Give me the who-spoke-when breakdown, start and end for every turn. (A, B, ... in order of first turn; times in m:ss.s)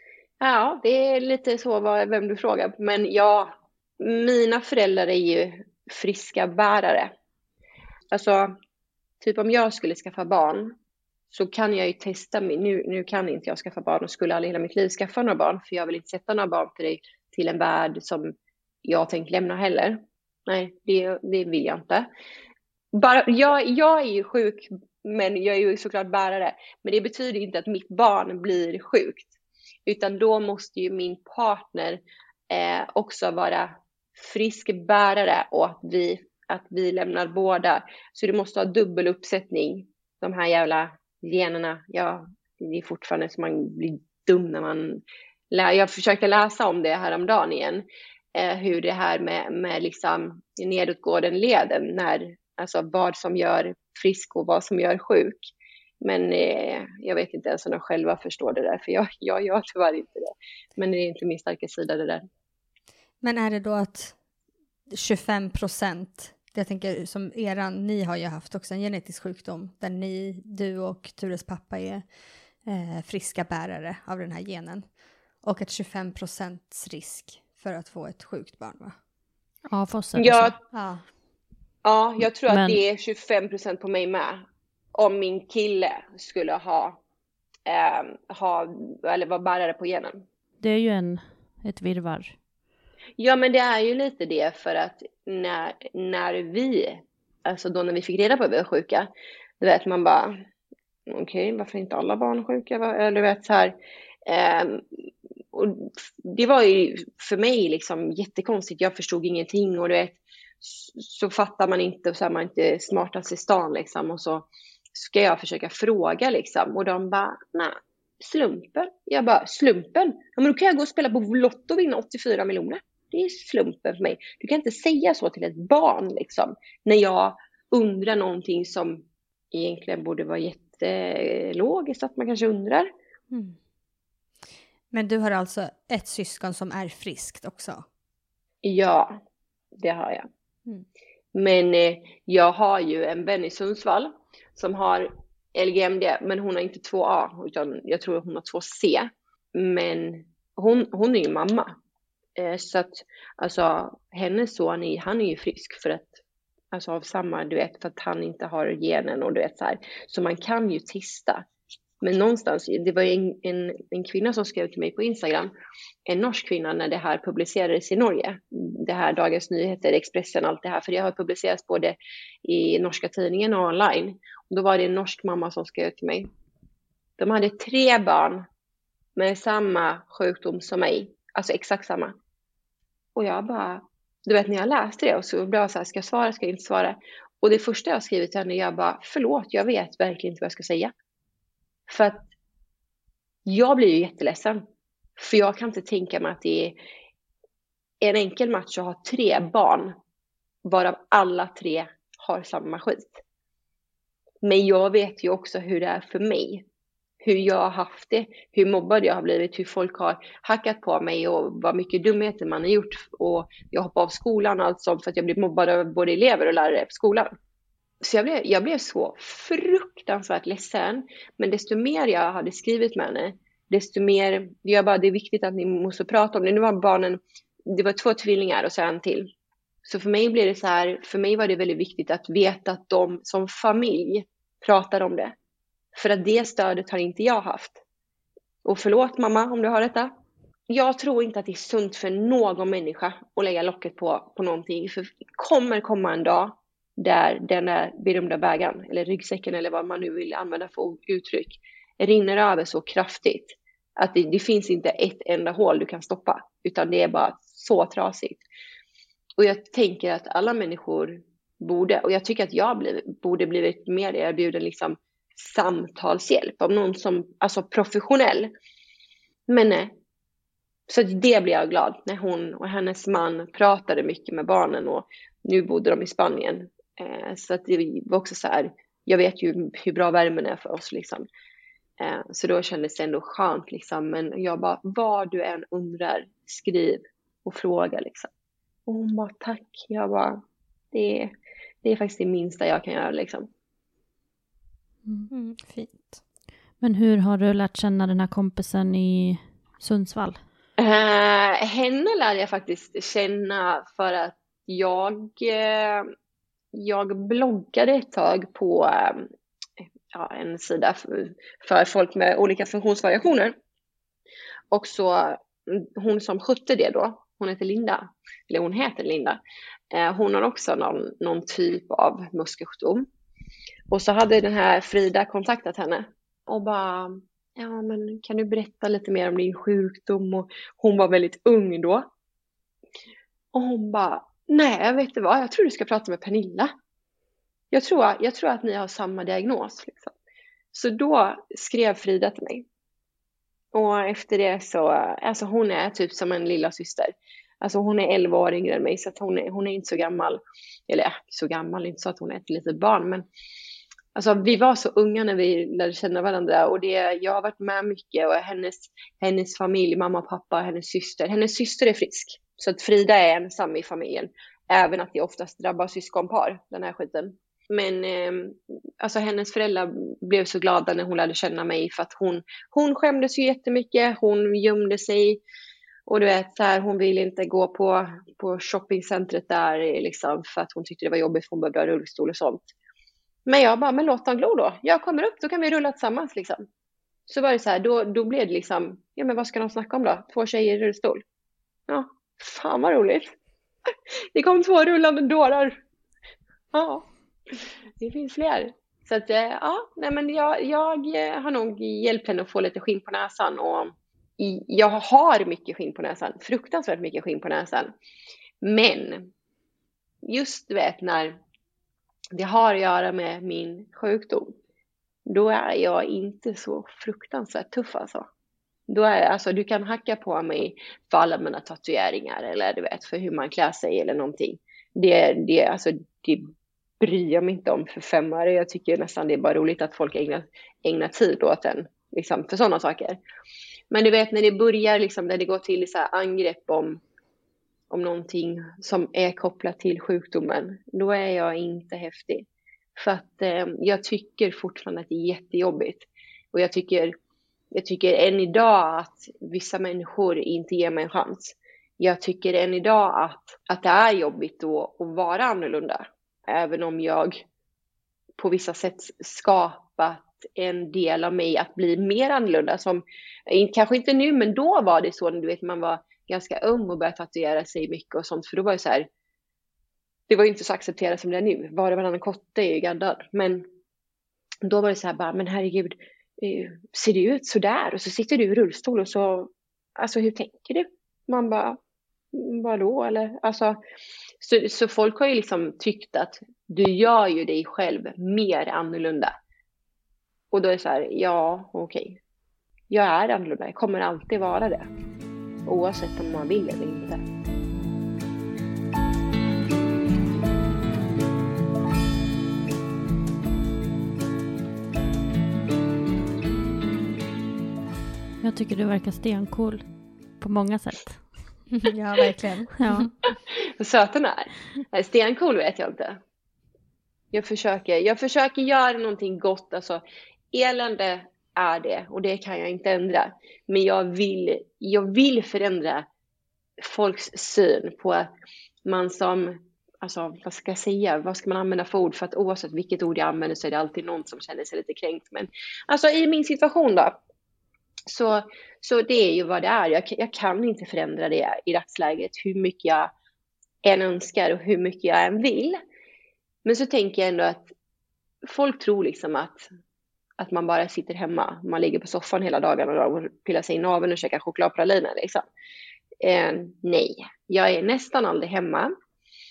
0:00.4-0:07.1 A
0:08.1-0:08.5 A
0:09.2-0:10.8 A
0:11.3-0:22.1 A
0:22.9-1:02.3 A
1:03.2-1:04.2 B
1:04.9-1:12.1 B
1:12.6-1:19.0 B
1:19.7-1:20.6 C
1:20.2-1:20.6 A
1:20.7-1:21.0 B
1:21.8-1:27.0 A
1:22.5-1:22.8 C
1:27.7-1:30.2 A
1:30.6-1:32.4 C
1:33.2-1:39.1 A
1:39.6-1:40.4 A
1:41.1-2:12.9 A
2:14.9-2:17.9 B
2:18.6-2:19.2 A
2:19.8-2:20.3 A
2:21.3-2:31.8 A
2:32.4-2:36.2 A
2:36.7-2:41.4 A
2:42.0-2:45.5 A
2:46.1-2:56.3 A
2:57.2-2:58.5 A
2:59.2-3:02.2 A
3:03.2-3:10.9 A
3:11.9-3:12.3 A
3:13.5-3:14.6 A
3:15.2-3:16.8 A
3:18.0-3:20.0 A
3:20.6-3:23.2 A
3:24.4-3:26.6 A
3:27.2-3:37.3 A
3:38.0-3:49.3 A
3:49.8-3:55.3 A
3:55.9-3:57.8 A
3:58.6-4:00.1 A
4:00.7-4:18.4 A
4:19.4-4:28.5 A
4:29.5-4:29.9 A
4:30.9-4:41.2 A
4:42.0-4:48.3 A
4:48.9-4:50.4 A
4:50.9-4:51.3 A
4:51.8-4:53.5 A
4:55.0-4:55.3 C
4:55.3-4:56.2 B
4:56.8-5:00.4 C
5:00.8-5:06.1 A
5:06.7-5:09.3 A
5:10.1-5:13.6 A
5:14.7-5:19.4 A
5:19.9-5:23.1 A
5:23.9-5:32.1 A
5:33.5-5:36.7 A
5:37.7-5:40.1 A
5:40.7-5:42.7 A
5:43.7-5:53.3 A
5:54.2-6:15.4 A
6:16.1-6:22.7 A
6:23.5-6:26.7 A
6:27.3-6:31.2 A
6:31.9-6:33.3 A
6:33.9-6:35.8 A
6:36.7-6:47.9 A
6:48.6-6:49.3 A
6:50.2-6:51.4 A
6:52.3-6:54.6 A
6:55.3-6:58.3 A
6:58.9-7:06.5 A
7:07.0-7:13.2 A
7:13.9-7:17.0 A
7:17.9-7:27.1 A
7:27.7-7:37.4 A
7:38.4-7:49.1 A
7:50.3-7:53.6 A
7:54.6-8:01.8 A
8:02.3-8:03.8 A
8:04.4-8:09.3 A
8:10.5-8:12.2 A
8:12.9-8:14.9 A
8:15.6-8:17.2 A
8:28.4-8:29.8 C
8:30.4-8:31.4 C
8:31.8-8:33.1 B
8:32.8-8:33.1 C
8:33.5-8:36.2 A
8:37.3-8:40.0 A
8:40.5-8:46.1 A
8:46.8-8:48.3 A
8:48.8-8:57.2 A
8:58.1-9:03.1 A
9:03.8-9:05.8 A
9:06.6-9:07.7 A
9:08.4-9:09.7 A
9:10.4-9:15.5 A
9:16.2-9:18.9 A